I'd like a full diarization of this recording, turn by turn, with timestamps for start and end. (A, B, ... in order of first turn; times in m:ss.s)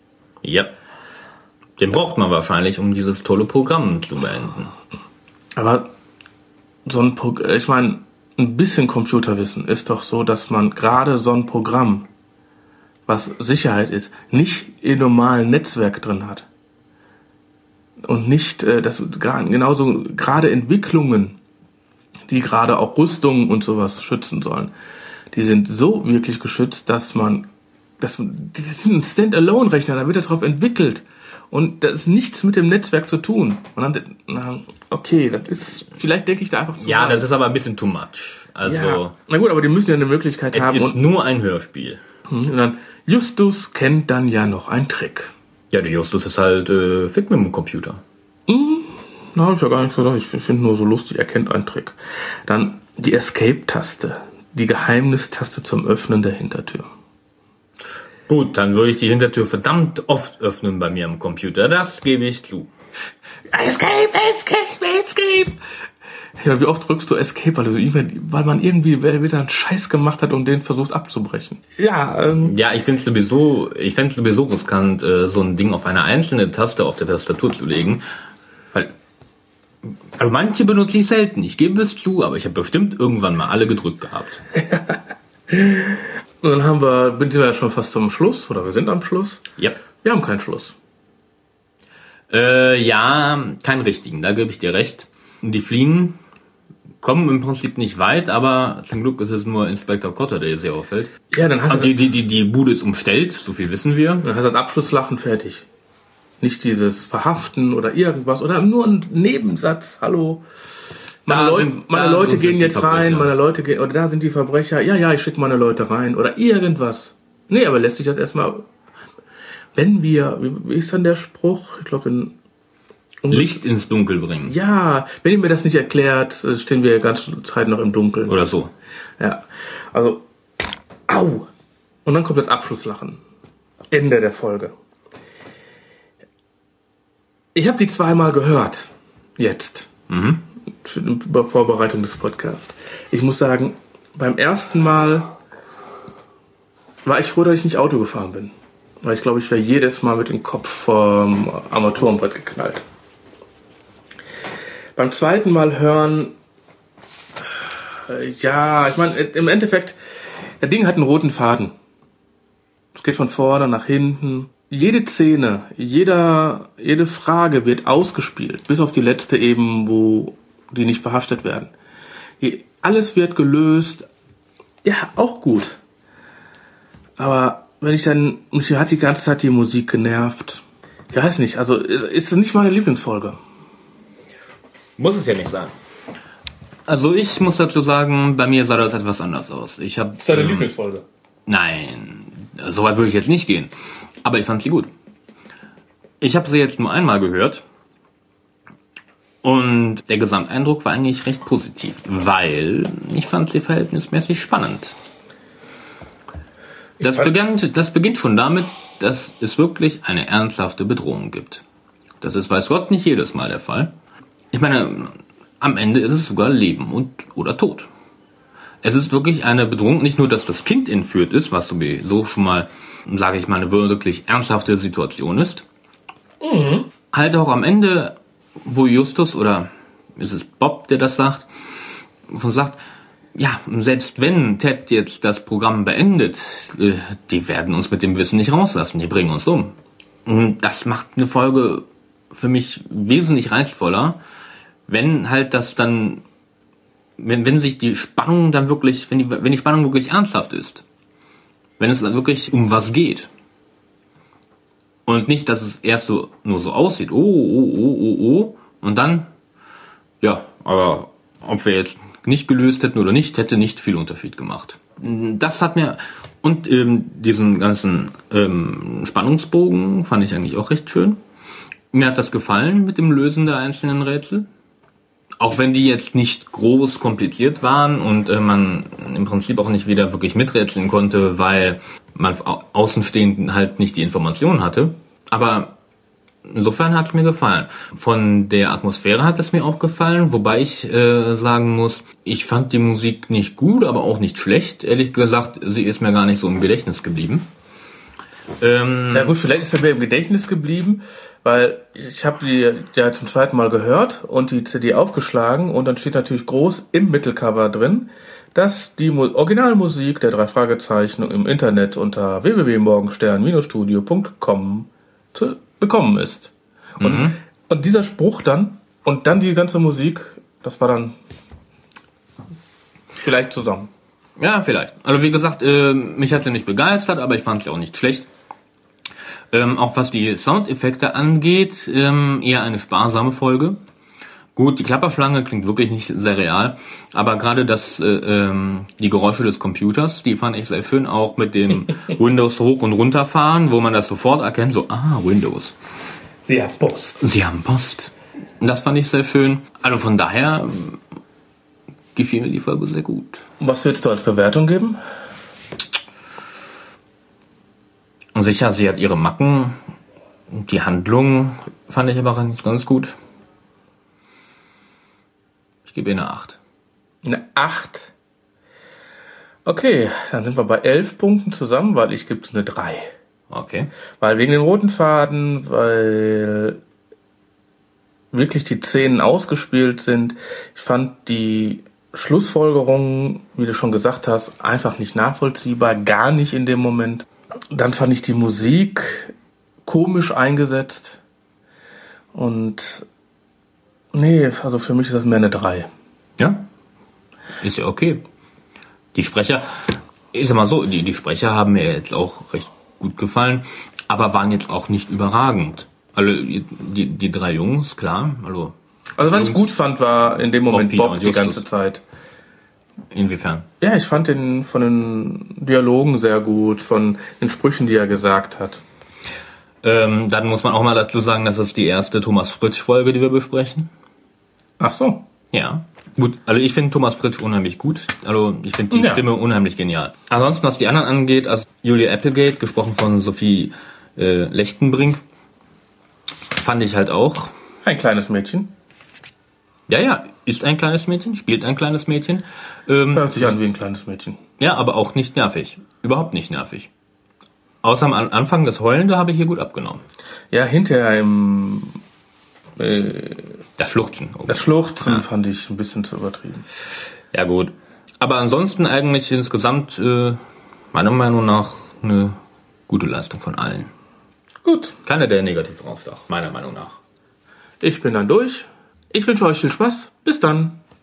0:00.4-0:00.7 A
0:01.8-0:04.7 A
0:05.6-0:05.9 B
0:06.9-0:12.1 B
0:13.1-0:16.4 B
0:18.0-0:21.4 B
0:22.3-0:24.7 B
0:25.3-0:27.5 B
0:28.0-0:37.2 B
0:36.8-0:39.1 A
0:38.6-0:41.0 B
0:40.5-0:42.0 A
0:42.3-0:45.3 B
0:45.7-0:48.0 A
0:48.5-0:51.9 B
0:52.4-0:56.9 B
0:58.3-1:02.7 A
1:03.5-1:05.6 B
1:06.4-1:12.5 B
1:12.4-1:18.0 A
1:19.8-1:24.4 A
1:24.7-1:25.0 B
1:25.5-1:29.4 B
1:30.0-1:30.7 B
1:32.3-1:36.2 A
1:37.0-1:44.2 A
1:41.3-1:42.0 B
1:44.2-1:45.6 B
1:46.4-1:50.4 B
1:51.2-1:58.7 B
1:51.3-1:53.3 A
1:59.7-2:02.3 B
2:03.2-2:03.6 B
2:03.3-2:04.5 A
2:04.4-2:08.4 B
2:08.3-2:08.7 A
2:09.2-2:10.2 B
2:11.1-2:11.5 B
2:12.0-2:13.2 B
2:13.9-2:14.7 B
2:17.5-2:19.9 B
2:20.1-2:20.4 A
2:20.8-2:25.4 B
2:27.0-2:32.8 B
2:35.0-2:36.3 B
2:38.1-2:40.0 B
2:40.6-2:41.7 B
2:42.9-2:51.7 B
2:52.4-2:54.1 B
2:54.8-2:55.8 B
2:57.2-3:03.4 B
3:05.0-3:05.8 A
3:06.9-3:10.7 A
3:10.2-3:11.0 B
3:11.5-3:14.9 A
3:16.2-3:17.6 A
3:19.4-3:25.0 A
3:27.0-3:31.6 A
3:32.2-3:33.9 A
3:34.5-3:37.9 A
3:38.8-3:45.6 A
3:46.4-3:46.9 B
3:47.1-3:52.8 A
3:53.3-3:59.7 A
4:00.2-4:04.2 A
4:04.9-4:06.2 A
4:07.2-4:10.8 A
4:11.8-4:13.3 A
4:15.1-4:19.3 A
4:20.2-4:31.2 A
4:31.9-4:34.5 A
4:35.4-4:45.7 A
4:46.5-4:57.4 A
4:58.6-4:59.3 A
4:59.1-5:21.2 B
5:17.0-5:17.4 A
5:23.2-5:23.9 B
5:24.4-5:28.3 A
5:29.5-5:33.8 A
5:34.6-5:45.8 A
5:46.5-5:47.2 B
5:47.2-5:51.0 A
5:52.1-5:53.4 A
5:53.6-5:55.0 B
5:58.3-5:59.8 A
6:00.5-6:03.1 A
6:05.8-6:06.6 A
6:07.2-6:08.1 B
6:09.6-6:13.1 B
6:13.5-6:13.9 A
6:14.2-6:16.8 B
6:18.3-6:29.3 B
6:29.8-6:31.2 B
6:32.3-6:33.1 B
6:34.1-6:35.9 B
6:36.4-6:36.7 A
6:37.6-6:38.2 A
6:39.1-6:48.7 A
6:49.2-6:52.0 B
6:49.3-6:49.7 A
6:50.7-6:51.6 A
6:53.1-6:53.7 A
6:53.8-6:58.8 B
6:59.8-7:03.9 A
7:04.8-7:05.2 B
7:05.5-7:15.2 A
7:08.9-7:09.2 B
7:16.6-7:17.5 A
7:17.8-7:18.7 B
7:19.9-7:23.5 A
7:23.1-7:24.4 B
7:24.6-7:26.9 A
7:27.8-7:30.0 A
7:30.5-7:32.0 B
7:32.8-7:33.6 B
7:33.8-7:35.2 A
7:34.5-7:36.6 B
7:37.3-7:40.4 A
7:40.9-7:42.4 A
7:42.9-7:43.9 A
7:44.6-7:45.0 B
7:45.0-7:47.0 A
7:47.8-7:50.8 B